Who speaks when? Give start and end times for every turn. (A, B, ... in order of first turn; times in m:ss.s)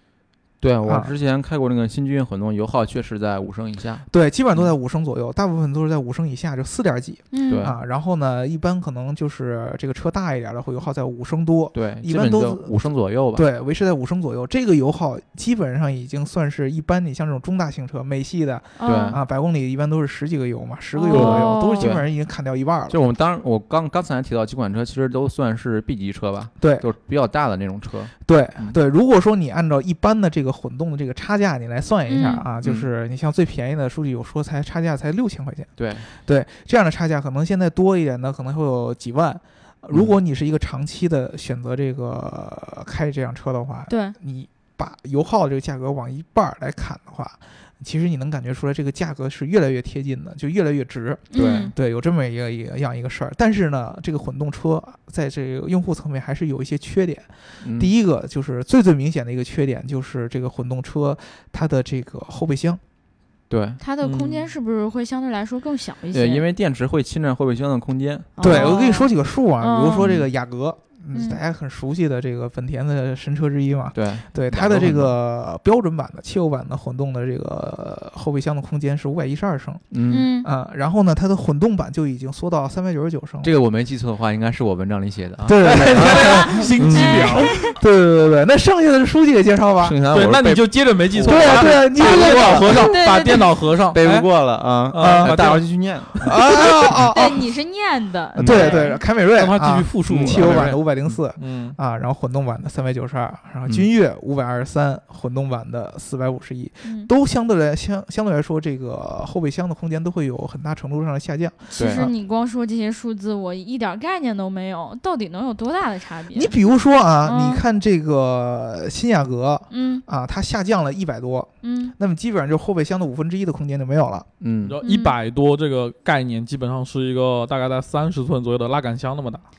0:00.6-0:04.7 A
0:00.8-0:01.1 B
0:04.1-0:12.7 B
0:07.3-0:07.7 C
0:07.5-0:07.8 A
0:11.7-0:13.4 A
0:13.3-0:23.0 B
0:18.8-0:19.2 C
0:18.8-0:19.2 A
0:20.9-0:21.9 C
0:21.1-0:22.1 A
0:22.9-0:28.8 A
0:26.6-0:26.8 B
0:28.2-1:02.8 B
0:32.1-0:32.4 C
0:32.6-0:32.9 A
0:35.8-0:36.1 A
0:43.9-0:44.2 C
0:51.3-0:51.7 C
0:51.3-0:51.7 A
0:57.6-0:57.9 A
1:03.5-1:03.8 A
1:03.8-1:06.4 C
1:04.0-1:04.5 D
1:06.1-1:08.8 A
1:08.4-1:10.1 C
1:08.4-1:19.8 B
1:10.0-1:10.3 A
1:11.1-1:11.4 C
1:13.9-1:15.1 A
1:19.9-1:20.3 A
1:20.1-1:20.5 C
1:20.4-1:23.5 B
1:23.4-1:27.4 A
1:25.4-1:26.9 B
1:25.6-1:27.7 D
1:26.0-1:27.8 C
1:27.6-1:30.0 B
1:29.8-1:32.9 A
1:30.1-1:34.3 D
1:31.2-1:32.9 B
1:32.0-1:33.5 C
1:33.9-1:36.4 A
1:34.9-1:36.4 D
1:35.0-1:35.4 B
1:36.2-1:37.4 B
1:37.1-1:39.0 C
1:38.4-1:38.9 A
1:38.4-1:52.1 B
1:39.3-1:40.8 D
1:40.1-1:41.2 A
1:41.4-1:41.8 D
1:46.8-1:47.1 C
1:51.7-1:56.5 C
1:51.8-1:52.1 A
1:56.3-2:04.2 B
1:57.2-1:57.6 C
1:59.7-2:00.0 C
2:01.6-2:01.9 C
2:04.4-2:04.8 A
2:04.6-2:09.4 D
2:04.8-2:05.2 C